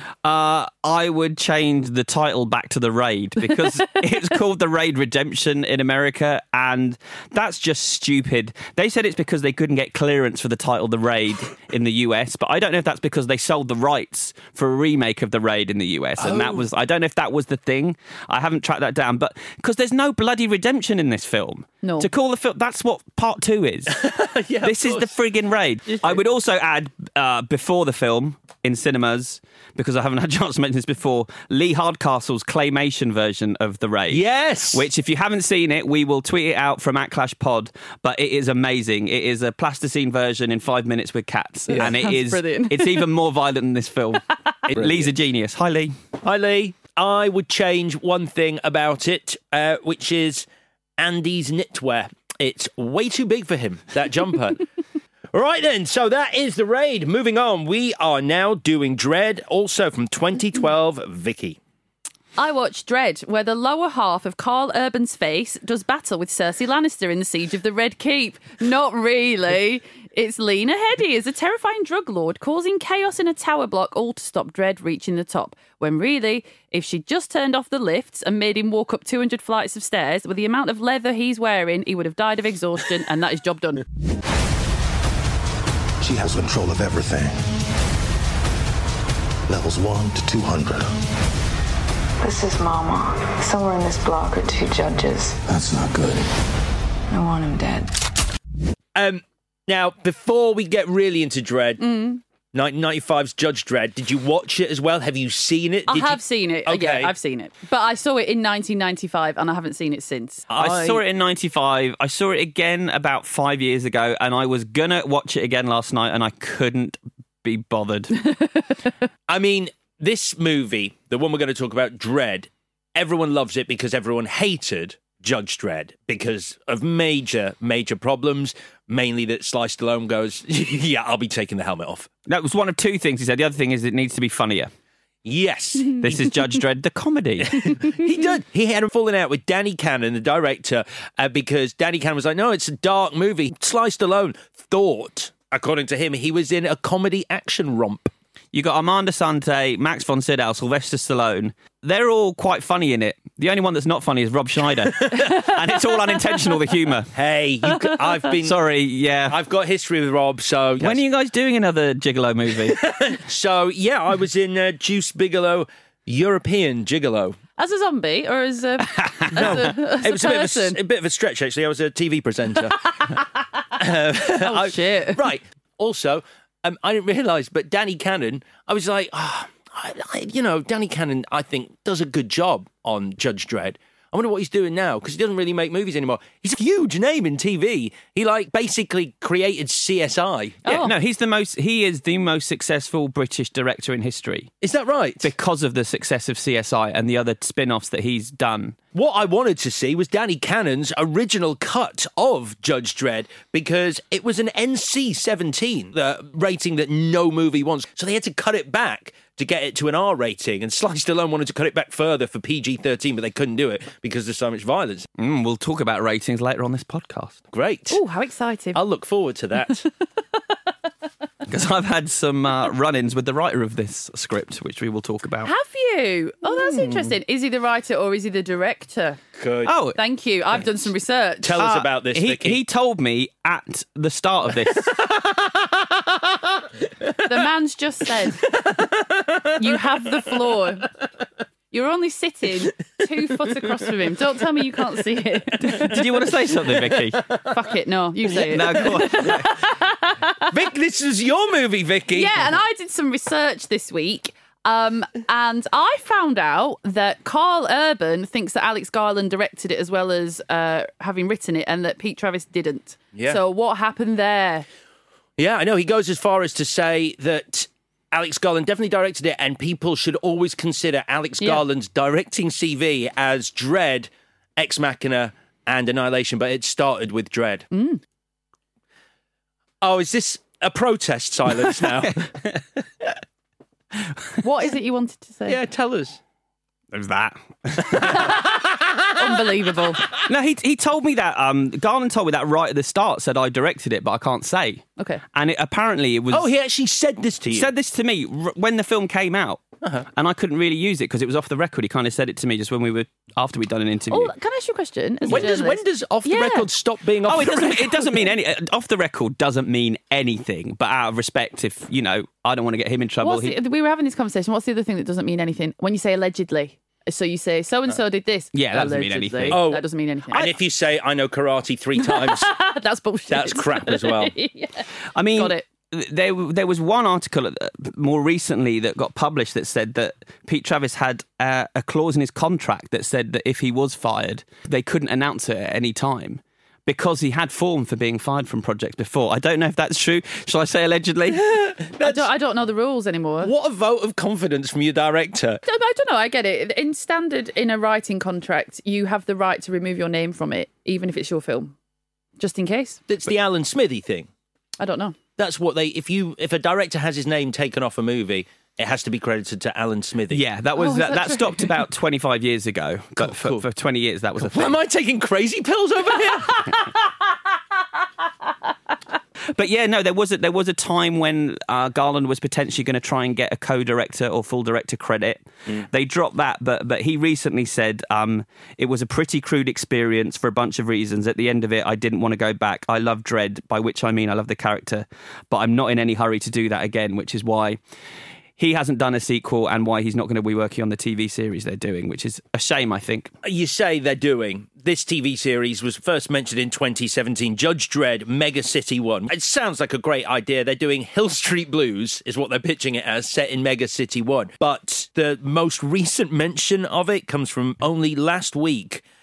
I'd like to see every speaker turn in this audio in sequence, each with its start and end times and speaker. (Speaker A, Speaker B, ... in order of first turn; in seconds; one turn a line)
Speaker A: 0.2-24.0
Speaker B: 16.2-16.6
Speaker C: 21.8-22.1
Speaker B: 23.9-25.1
Speaker A: 24.6-45.9
Speaker B: 25.9-26.2
Speaker B: 34.1-34.8
Speaker C: 41.7-43.0
Speaker B: 44.7-45.1
Speaker B: 46.2-50.5
Speaker B: 51.0-54.6
Speaker B: 55.3-61.6
Speaker C: 62.4-83.8
Speaker D: 86.0-87.4
Speaker D: 89.5-91.0
Speaker E: 92.2-95.4
Speaker D: 95.5-96.2
Speaker E: 97.1-97.9
Speaker B: 98.9-101.8
Speaker C: 101.8-102.2
Speaker B: 102.5-107.1
Speaker C: 105.9-110.5
Speaker B: 110.5-111.0
Speaker A: 110.5-118.2
Speaker B: 119.3-132.1
Speaker A: 132.3-134.7
Speaker B: 135.2-136.3
Speaker A: 136.0-137.8
Speaker B: 137.5-148.1
Speaker A: 148.5-157.1
Speaker B: 155.0-155.4
Speaker B: 157.1-158.6
Speaker A: 158.4-159.4
Speaker B: 159.3-161.0
Speaker A: 160.8-162.8
Speaker B: 162.7-167.4
Speaker C: 167.6-170.8
Speaker B: 168.9-173.2
Speaker B: 173.8-190.6
Speaker C: 174.4-175.2
Speaker C: 190.6-190.9
Speaker A: 190.7-194.5
Speaker B: 194.6-195.3
Speaker A: 195.2-198.8
Speaker B: 198.9-215.1
Speaker A: 215.2-217.4
Speaker B: 217.5-218.0
Speaker C: 217.9-218.8
Speaker B: 218.7-219.8
Speaker A: 221.5-225.5
Speaker C: 225.4-229.2
Speaker A: 226.4-227.1
Speaker B: 229.3-229.7
Speaker A: 229.7-230.0
Speaker C: 229.9-231.6
Speaker B: 231.4-232.6
Speaker A: 231.6-234.9
Speaker B: 234.9-235.8
Speaker C: 237.2-238.5
Speaker B: 238.5-239.7
Speaker C: 239.6-240.9
Speaker C: 241.7-246.0
Speaker A: 245.6-247.2
Speaker C: 247.5-250.5
Speaker A: 248.3-249.5
Speaker B: 250.5-252.5
Speaker C: 252.1-264.6
Speaker B: 263.1-263.4
Speaker B: 265.4-277.7
Speaker C: 277.7-278.0
Speaker B: 279.8-282.3
Speaker A: 281.8-282.6
Speaker C: 284.4-285.6
Speaker B: 285.4-286.2
Speaker A: 286.9-288.3
Speaker B: 287.8-289.2
Speaker C: 288.0-288.4
Speaker C: 289.1-290.0
Speaker A: 290.2-296.5
Speaker B: 296.3-297.7
Speaker A: 297.5-299.6
Speaker A: 300.1-304.3
Speaker C: 304.1-306.7
Speaker B: 305.2-308.0
Speaker A: 307.3-313.5
Speaker C: 313.2-320.5
Speaker A: 318.5-319.6
Speaker B: 319.5-322.5
Speaker C: 322.0-325.6
Speaker B: 323.3-324.3
Speaker A: 325.1-341.7
Speaker B: 341.7-342.3
Speaker C: 342.0-343.5
Speaker B: 343.4-345.6
Speaker C: 345.6-351.7
Speaker C: 352.4-353.0
Speaker B: 353.1-354.3
Speaker C: 354.8-355.1
Speaker B: 355.4-360.4
Speaker A: 360.3-364.8
Speaker C: 360.8-361.7
Speaker B: 363.2-363.6
Speaker B: 364.4-366.9
Speaker A: 369.5-387.8
Speaker A: 388.6-393.3
Speaker B: 393.4-409.0